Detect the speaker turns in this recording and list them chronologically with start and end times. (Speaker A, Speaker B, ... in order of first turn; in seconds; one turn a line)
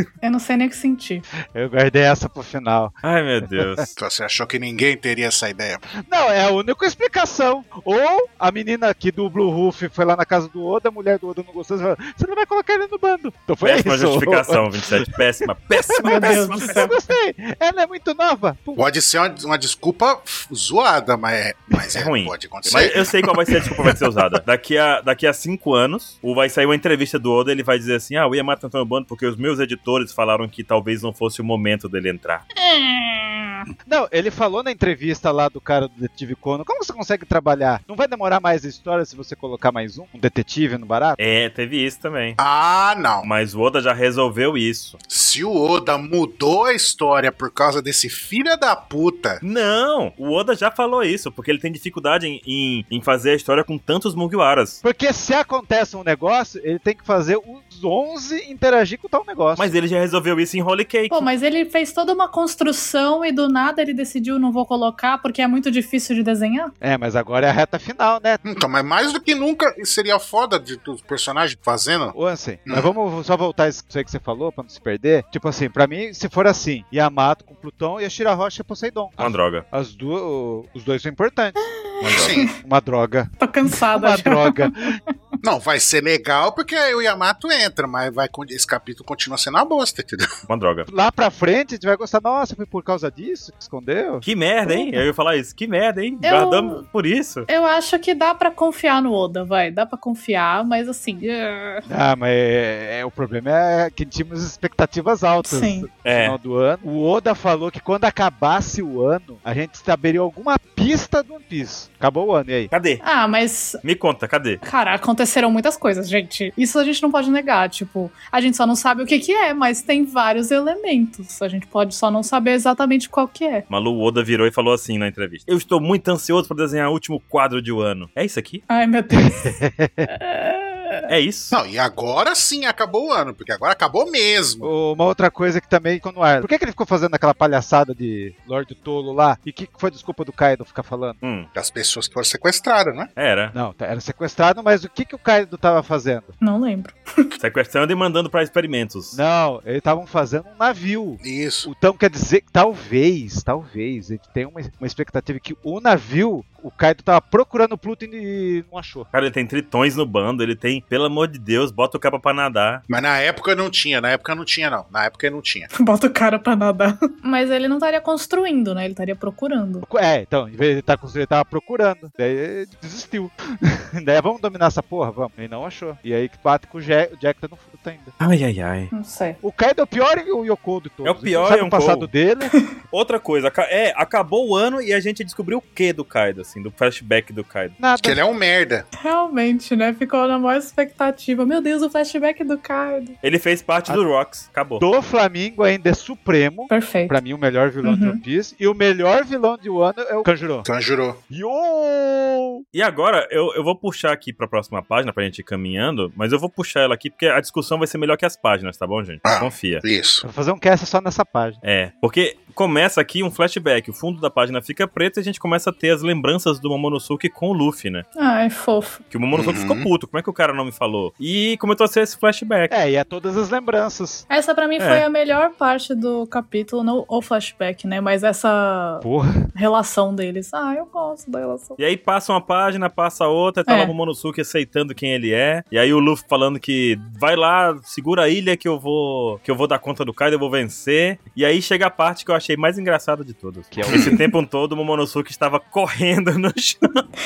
Speaker A: 0.2-1.2
Speaker B: 1.5-3.0
Speaker C: 3.0-3.9
Speaker B: 3.5-3.8
Speaker D: 4.0-5.8
Speaker B: 6.0-14.8
Speaker C: 13.6-16.9
Speaker B: 15.7-18.8
Speaker A: 16.0-16.9
Speaker D: 18.8-22.9
Speaker C: 21.9-32.4
Speaker B: 22.7-24.0
Speaker A: 32.6-33.6
Speaker B: 33.9-41.2
Speaker C: 41.2-42.4
Speaker D: 42.4-43.3
Speaker C: 43.2-45.0
Speaker D: 45.1-49.4
Speaker C: 49.4-54.8
Speaker B: 54.8-59.7
Speaker C: 59.6-61.3
Speaker A: 61.1-66.7
Speaker B: 66.8-68.4
Speaker D: 68.4-72.1
Speaker B: 72.1-85.0
Speaker C: 79.2-79.6
Speaker A: 81.6-82.5
Speaker D: 82.1-82.5
Speaker A: 83.4-85.0
Speaker D: 85.4-90.2
Speaker C: 90.5-90.9
Speaker B: 90.9-94.2
Speaker C: 94.2-97.5
Speaker A: 94.7-95.0
Speaker A: 96.2-96.8
Speaker A: 97.5-101.9
Speaker B: 101.9-112.7
Speaker A: 105.4-105.9
Speaker C: 106.0-106.4
Speaker C: 112.7-113.0
Speaker A: 113.0-113.8
Speaker C: 113.8-114.6
Speaker A: 114.6-123.6
Speaker C: 123.7-128.6
Speaker A: 128.7-131.0
Speaker B: 129.1-130.1
Speaker C: 131.1-131.6
Speaker D: 131.5-134.7
Speaker B: 134.6-141.2
Speaker C: 141.2-141.5
Speaker D: 141.6-143.1
Speaker C: 143.2-143.6
Speaker B: 143.5-146.3
Speaker A: 146.4-147.3
Speaker C: 147.4-149.2
Speaker B: 149.1-159.1
Speaker D: 151.2-151.7
Speaker C: 159.1-162.8
Speaker D: 162.9-165.7
Speaker A: 165.7-169.9
Speaker B: 169.8-178.1
Speaker C: 178.2-178.9
Speaker A: 178.9-179.4
Speaker B: 179.4-182.5
Speaker C: 181.0-182.1
Speaker C: 182.9-187.8
Speaker B: 187.8-188.2
Speaker D: 188.0-188.9
Speaker A: 189.0-193.1
Speaker C: 193.2-194.8
Speaker B: 194.8-200.7
Speaker A: 196.7-197.2
Speaker A: 197.8-198.2
Speaker D: 200.6-201.2
Speaker B: 201.3-202.6
Speaker C: 202.7-209.8
Speaker D: 209.2-210.2
Speaker B: 210.2-211.6
Speaker C: 211.6-218.1
Speaker A: 218.2-219.0
Speaker C: 219.1-222.7
Speaker D: 219.3-219.9
Speaker B: 222.7-224.2
Speaker A: 224.3-231.8
Speaker C: 224.8-225.1
Speaker B: 229.0-229.4
Speaker C: 231.8-247.1
Speaker A: 233.7-233.9
Speaker B: 243.7-244.2